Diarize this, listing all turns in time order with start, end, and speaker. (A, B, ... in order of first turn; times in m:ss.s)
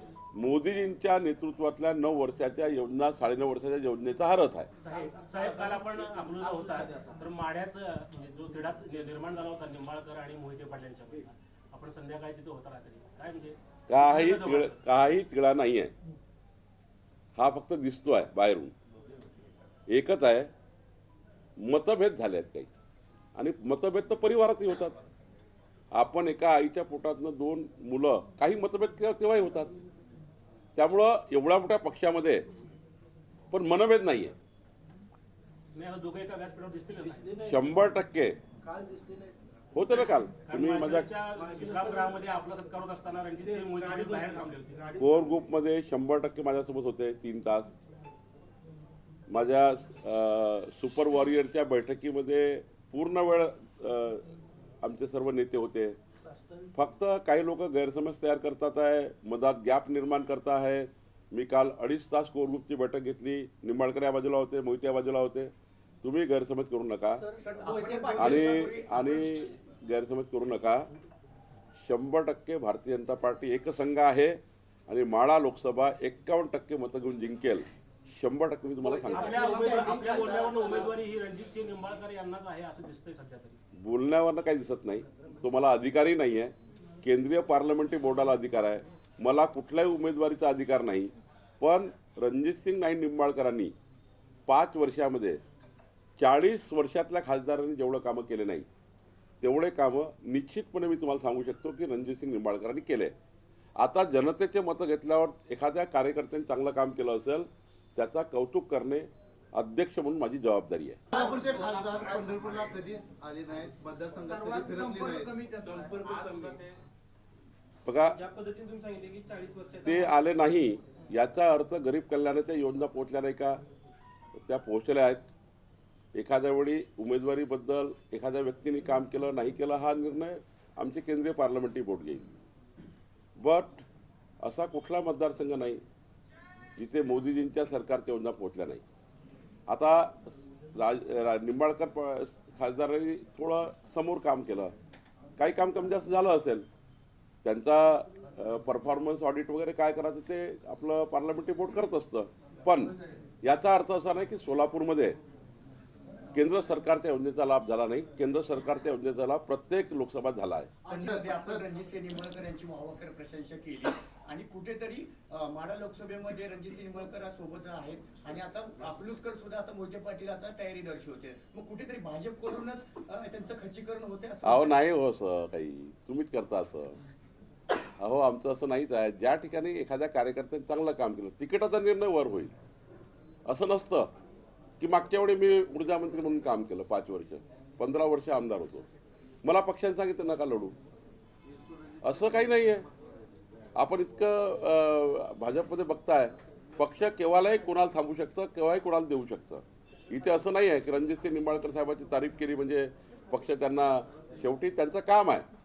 0:00.4-0:04.7 A
0:04.8-0:14.9 B
0:06.4-0:07.0 C
0:13.9-0:15.9 A
0:17.4-0:18.7 A
0:19.9-0:20.5 A
0:21.6-0:22.7 A
0:23.4-0:25.0 A
0:25.9-0:29.7 A
0:30.8-0:32.5 A
0:33.5-0:34.4 A
0:35.8-0:37.4 B
0:37.1-0:37.6 C
0:37.4-0:38.4 A
0:38.6-0:39.4 C
0:39.7-0:41.1 A
0:40.4-0:44.8 B
0:41.4-0:42.1 C
0:43.5-0:45.3 C
0:45.0-0:47.7 A
0:49.3-0:56.0 A
0:56.8-1:07.2 A
1:07.2-1:08.6 C
1:07.2-1:09.5 D
1:08.2-1:10.9 A
1:11.8-1:19.5 A
1:18.9-1:20.9 C
1:19.1-1:23.6 B
1:23.8-1:33.8 A
1:34.5-1:35.4 A
1:36.2-1:38.7 A
1:39.4-1:43.2 A
1:43.8-1:51.0 A
1:51.1-1:55.4 E
1:51.2-1:52.2 C
1:54.3-1:56.7 C
1:57.8-1:58.2 A
1:58.2-2:00.1 C
1:59.8-2:03.6 A
2:04.4-2:05.3 A
2:06.2-2:12.3 A
2:13.4-2:13.8 A
2:14.4-2:15.8 A
2:16.8-2:18.8 A
2:19.7-2:24.7 A
2:25.4-2:26.7 A
2:27.4-2:35.2 A
2:36.3-2:40.8 A
2:40.8-2:41.6 E
2:40.8-2:54.8 D
2:54.4-2:57.0 A
2:58.0-3:02.5 A
3:03.5-3:04.1 A
3:04.8-3:08.8 A
3:09.4-3:10.8 A
3:12.0-3:12.9 A
3:13.8-3:25.4 A